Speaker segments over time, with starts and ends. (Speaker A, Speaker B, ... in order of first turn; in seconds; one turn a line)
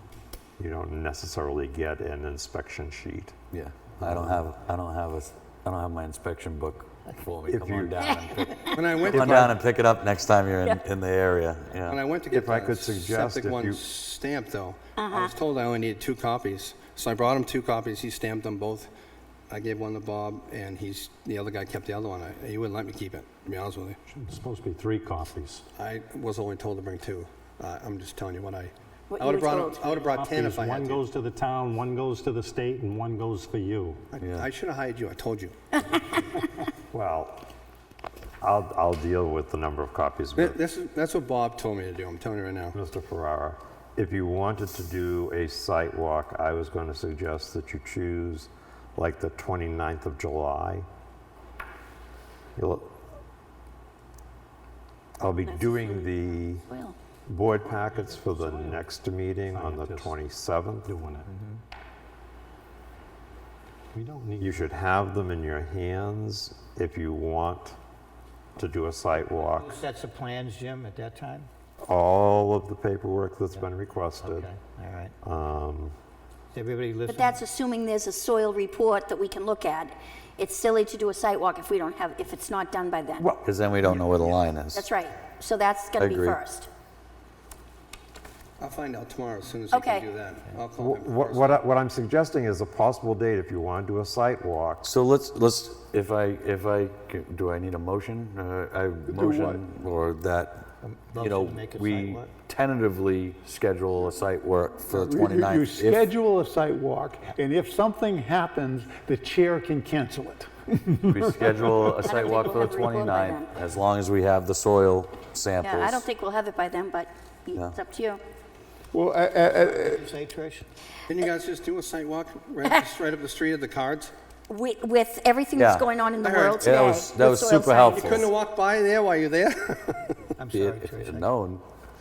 Speaker A: 0.6-3.3
Speaker B: 3.5-12.0
Speaker A: 4.0-4.4
Speaker A: 7.5-8.1
Speaker C: 8.0-8.8
Speaker D: 8.7-9.6
Speaker A: 9.1-9.5
Speaker D: 11.9-18.9
Speaker A: 12.3-13.8
Speaker C: 15.0-15.3
Speaker D: 19.5-24.0
Speaker E: 24.1-25.6
Speaker D: 25.7-31.0
Speaker C: 29.1-30.0
Speaker E: 29.8-34.0
Speaker D: 34.1-35.5
Speaker B: 34.2-34.5
Speaker A: 36.9-37.5
Speaker A: 38.4-40.6
Speaker D: 40.4-42.8
Speaker A: 42.7-50.9
Speaker A: 52.6-52.9
Speaker A: 55.2-56.6
Speaker C: 55.4-56.1
Speaker C: 56.7-57.0
Speaker A: 57.3-60.9
Speaker E: 57.6-58.9
Speaker E: 59.5-60.2
Speaker E: 60.8-61.3
Speaker E: 63.9-64.7
Speaker A: 64.4-67.8
Speaker A: 68.6-69.8
Speaker F: 69.4-71.5
Speaker A: 71.8-74.5
Speaker F: 74.2-75.1
Speaker A: 75.2-75.9
Speaker F: 76.5-77.4
Speaker C: 77.1-83.3
Speaker A: 83.2-84.3
Speaker B: 83.4-84.8
Speaker C: 84.7-86.7
Speaker B: 86.0-86.4
Speaker D: 88.6-91.6
Speaker C: 89.7-90.1
Speaker A: 90.8-94.9
Speaker B: 94.8-106.1
Speaker G: 99.1-99.6
Speaker F: 100.8-102.3
Speaker G: 104.9-111.4
Speaker B: 111.0-116.0
Speaker C: 112.0-113.5
Speaker C: 115.6-118.2
Speaker B: 117.5-117.8
Speaker G: 118.9-120.1
Speaker F: 119.6-120.7
Speaker D: 121.1-124.1
Speaker C: 124.5-128.3
Speaker B: 125.5-125.9
Speaker D: 126.2-126.7
Speaker B: 126.6-128.2
Speaker D: 127.9-130.3
Speaker F: 130.4-131.3
Speaker B: 130.5-131.6